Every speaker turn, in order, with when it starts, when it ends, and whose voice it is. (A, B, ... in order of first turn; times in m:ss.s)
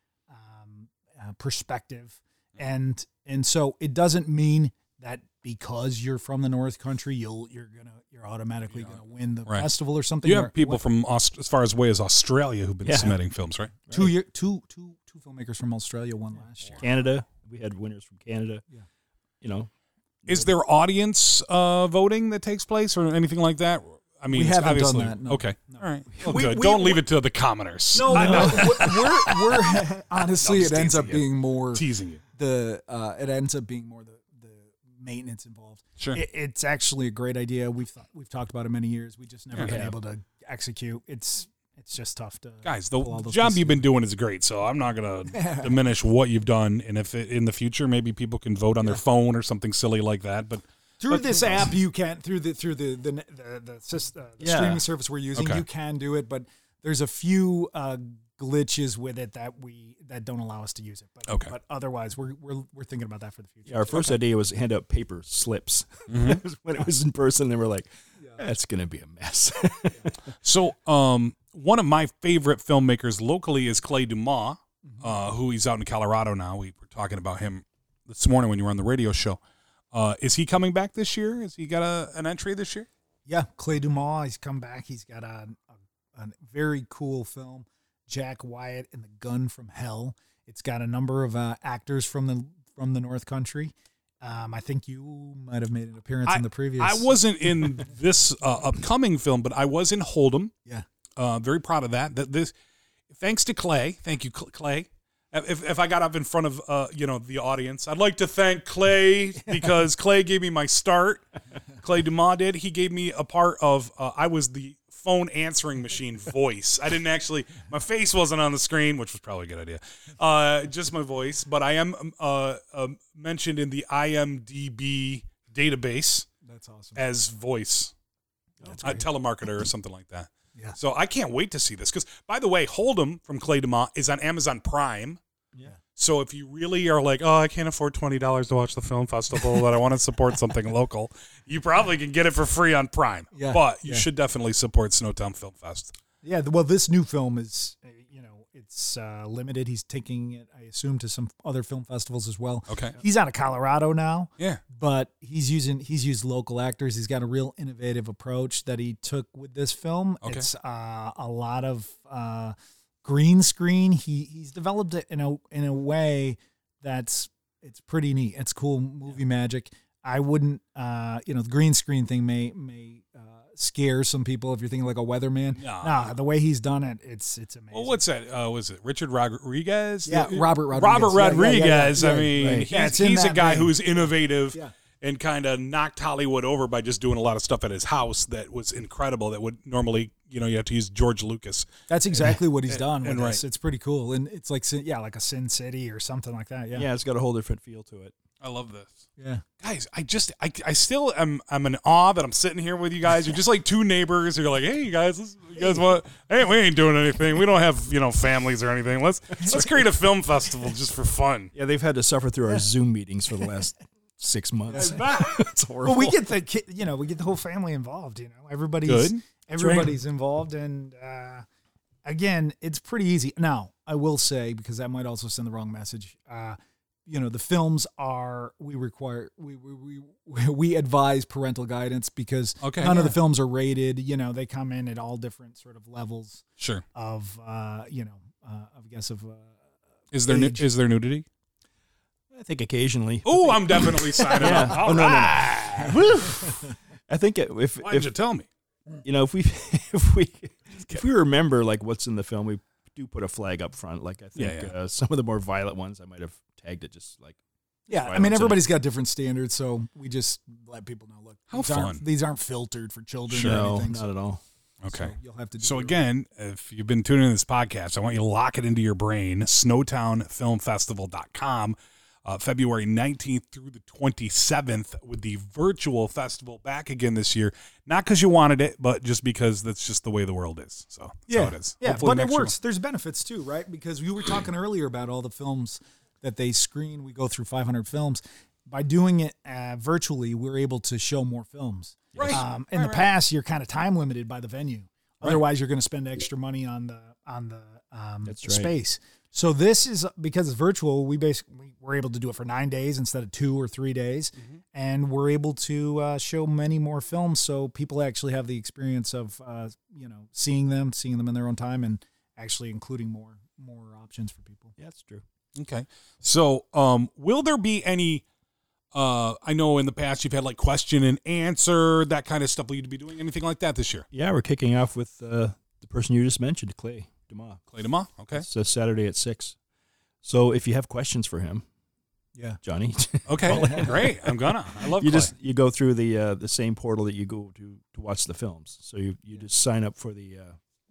0:00.3-0:10.8 A
0:08.7-0:09.7 B
0:10.2-0:13.7 B
0:12.8-0:13.2 C
0:13.9-0:14.1 C
0:13.9-0:16.8 A
0:16.8-0:18.6 C
0:19.4-0:19.7 C
0:20.2-0:20.5 C
0:20.3-0:29.8 B
0:24.3-0:27.0 A
0:27.9-0:31.8 A
0:28.1-0:28.8 C
0:30.4-0:32.2 B
0:32.3-0:43.8 A
0:39.6-0:40.0 C
0:42.6-0:51.7 B
0:45.3-0:45.8 A
0:51.0-1:04.2 A
0:54.4-0:54.8 C
0:55.3-0:55.6 B
1:01.3-1:01.5 B
1:03.6-1:10.3 C
1:06.1-1:06.4 B
1:10.4-1:19.4 B
1:19.9-1:22.9 B
1:23.3-1:37.1 A
1:36.3-1:40.5 B
1:41.2-1:42.5 B
1:43.1-1:51.2 B
1:51.8-2:06.3 B
2:06.4-2:07.0 A
2:07.0-2:07.9 B
2:08.6-2:09.0 C
2:08.6-2:09.0 A
2:08.8-2:15.2 B
2:16.0-2:25.9 B
2:23.3-2:24.1 A
2:26.2-2:58.0 A
2:32.7-2:33.0 B
2:55.5-2:56.0 B
2:57.7-3:11.7 B
3:00.0-3:04.7 A
3:02.4-3:02.7 C
3:11.9-3:16.9 A
3:12.2-3:13.4 B
3:16.7-3:18.1 C
3:18.4-3:19.0 B
3:19.2-3:19.4 A
3:19.6-3:31.5 B
3:31.5-3:36.2 C
3:34.7-3:35.4 B
3:35.8-3:41.4 A
3:38.8-3:39.9 B
3:42.0-3:59.6 A
3:52.6-3:52.9 B
3:56.6-3:56.8 B
4:00.1-4:01.2 B
4:00.2-4:00.6 A
4:02.3-4:08.1 C
4:03.2-4:06.0 B
4:04.2-4:05.0 A
4:07.8-4:08.5 B
4:09.0-4:17.4 C
4:14.3-4:14.7 B
4:17.9-4:24.1 A
4:17.9-4:18.7 C
4:21.5-4:22.0 B
4:23.3-4:24.4 C
4:24.8-4:42.5 B
4:24.9-4:26.0 A
4:41.3-5:14.7 A
4:52.1-4:52.4 C
4:52.2-4:53.0 B
4:58.2-4:58.7 C
5:14.8-5:15.2 C
5:15.5-5:18.2 B
5:18.9-5:24.1 B
5:24.1-5:27.6 C
5:27.7-5:28.4 B
5:28.3-5:29.6 C
5:30.2-5:31.6 C
5:32.6-5:40.6 C
5:33.3-5:35.3 B
5:33.5-5:33.9 A